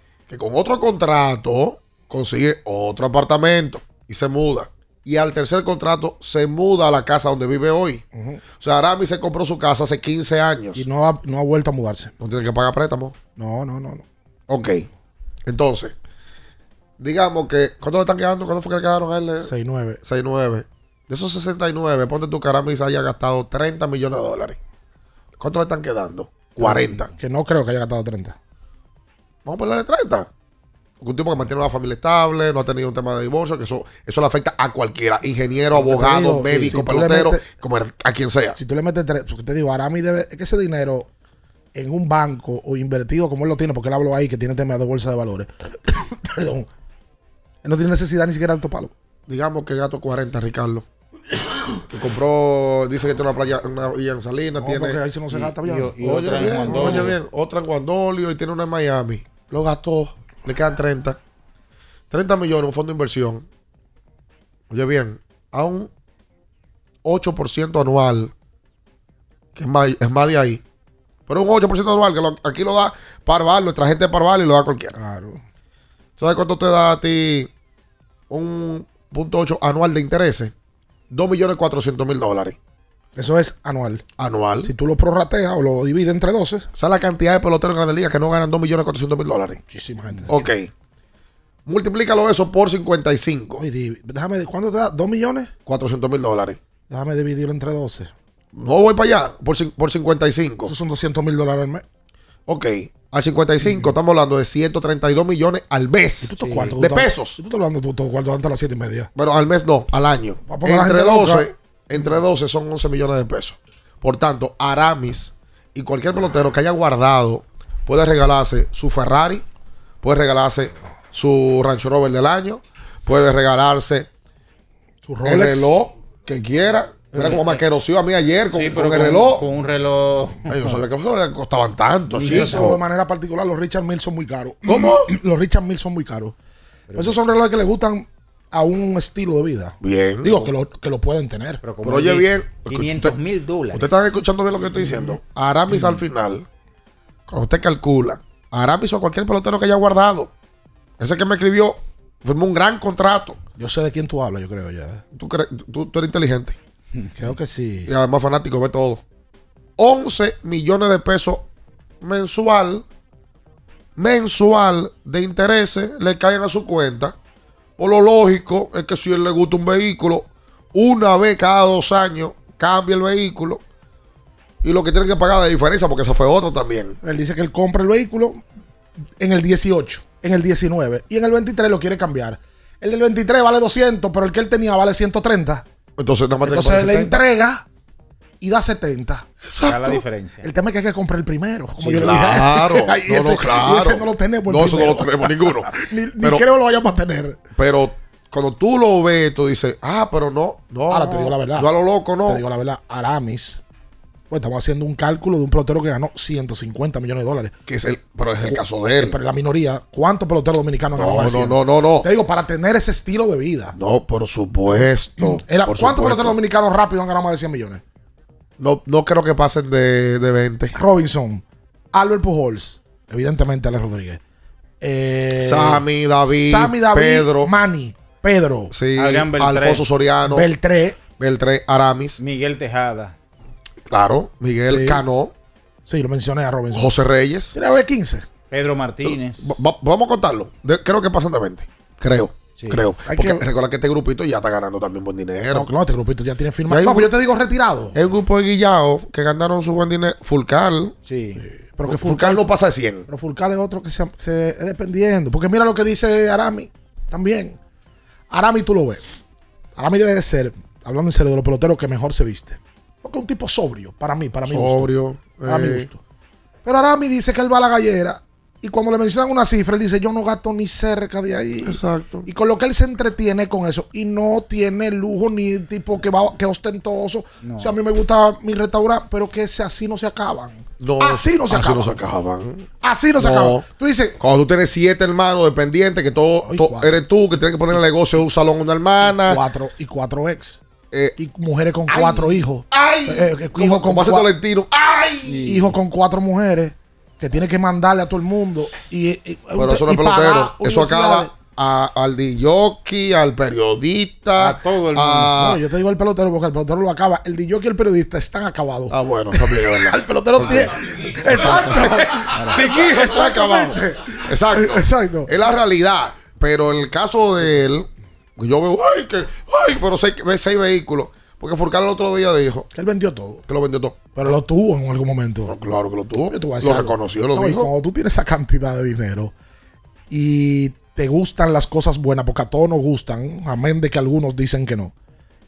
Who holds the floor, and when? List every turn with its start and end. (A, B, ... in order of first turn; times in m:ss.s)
0:00.3-0:08.0 A
0:08.1-0:08.4 B
0:08.6-0:10.8 A
0:10.8-0:12.1 B
0:12.2-0:13.2 A
0:13.4-0:14.1 B
0:14.5-0:14.9 A
0:15.5-0:16.0 A
0:17.0-0:19.5 A
0:19.4-0:20.0 B
0:20.0-0:24.6 A
0:25.4-0:27.1 A
0:26.6-0:28.4 B
0:29.4-0:30.3 A
0:31.0-0:38.6 A
0:35.7-0:37.5 B
0:38.4-0:41.1 B
0:41.8-0:46.7 B
0:47.6-0:48.9 B
0:49.3-0:50.9 A
0:51.9-0:55.0 A
0:54.6-0:57.1 B
0:55.3-0:57.2 C
0:56.0-1:01.2 A
1:02.1-1:03.5 A
1:04.7-1:05.9 A
1:07.0-1:08.3 A
1:09.6-1:10.6 A
1:11.3-1:15.0 A
1:15.0-1:15.4 B
1:16.2-1:17.5 A
1:18.3-1:20.5 A
1:21.1-1:22.6 A
1:23.2-1:24.0 B
1:24.2-1:24.7 A
1:24.6-1:26.7 B
1:26.8-1:29.6 A
1:29.7-1:30.4 B
1:30.3-1:30.7 A
1:31.7-1:33.6 A
1:33.6-1:35.5 B
1:35.7-1:36.6 A
1:36.9-1:38.1 B
1:38.5-1:40.7 A
1:40.7-1:41.8 B
1:42.5-1:47.4 A
1:43.6-1:43.9 B
1:46.2-1:49.1 B
1:46.4-1:46.8 C
1:49.2-1:59.4 A
1:50.5-1:51.5 B
2:00.0-2:04.1 A
2:05.0-2:05.7 B
2:05.2-2:09.5 A
2:07.1-2:07.4 B
2:07.2-2:07.6 C
2:08.5-2:10.5 C
2:10.5-2:12.8 A
2:12.1-2:12.8 C
2:12.2-2:16.4 B
2:14.7-2:15.1 A
2:16.9-2:17.2 C
2:17.0-2:21.6 B
2:19.8-2:20.5 A
2:21.6-2:24.1 C
2:21.8-2:23.2 A
2:23.7-2:26.5 A
2:24.8-2:25.2 B
2:27.3-2:30.3 A
2:31.0-2:33.4 A
2:33.6-2:35.0 B
2:35.1-2:36.6 A
2:37.2-2:37.9 B
2:37.9-2:39.0 A
2:39.8-2:41.5 A
2:42.0-2:42.9 A
2:44.0-2:47.2 A
2:47.8-2:53.6 A
2:54.6-2:57.0 A
2:57.0-2:58.4 B
2:59.2-3:05.7 B
3:06.0-3:07.2 A
3:06.4-3:07.6 B
3:08.4-3:09.3 B
3:09.4-3:10.0 A
3:09.6-3:10.5 C
3:10.4-3:17.4 B
3:11.8-3:12.1 C
3:11.9-3:16.4 A
3:17.6-3:22.4 A
3:20.9-3:21.7 B
3:22.3-3:23.6 B
3:24.3-3:27.6 B
3:27.7-3:29.2 A
3:28.5-3:33.8 B
3:31.0-3:32.1 A
3:33.8-3:36.4 A
3:35.2-3:37.8 B
3:38.6-3:40.7 A
3:40.7-3:44.2 B
3:44.8-3:48.7 B
3:45.4-3:47.5 A
3:48.7-3:50.5 A
3:49.0-3:49.9 C
3:50.3-3:51.0 B
3:51.2-3:52.2 A
3:52.2-3:53.2 C
3:53.9-3:55.3 A
3:54.7-3:55.0 B
3:55.9-3:56.9 B
3:56.7-3:57.6 A
3:57.5-3:58.3 B
3:58.5-3:59.6 C
3:59.0-4:05.7 A
4:02.6-4:02.8 C
4:03.1-4:03.4 B
4:05.5-4:08.0 B
4:06.7-4:07.1 A
4:07.9-4:10.9 A
4:11.0-4:11.4 C
4:11.4-4:12.5 B
4:11.8-4:13.1 A
4:13.1-4:17.6 B
4:18.3-4:19.0 B
4:19.8-4:24.9 B
4:24.5-4:25.9 A
4:25.4-4:26.0 B
4:26.6-4:42.0 B
4:31.6-4:32.3 A
4:37.4-4:37.8 C
4:40.8-4:42.7 A
4:42.8-4:44.2 B
4:43.2-4:43.6 A
4:44.2-4:49.4 A
4:46.4-4:47.0 B
4:49.0-4:50.6 B
4:50.9-4:51.2 A
4:51.2-4:54.3 B
4:51.9-4:55.5 A
4:55.3-4:55.7 C
4:55.4-5:01.3 B
4:59.6-5:05.6 A
5:04.4-5:05.4 C
5:05.4-5:15.3 B
5:08.9-5:10.7 A
5:11.2-5:22.7 A
5:12.4-5:12.6 C
5:22.7-5:23.4 B
5:23.5-5:24.0 A
5:24.2-5:25.6 B
5:25.5-5:27.7 A
5:26.3-5:29.3 B
5:30.1-5:34.9 B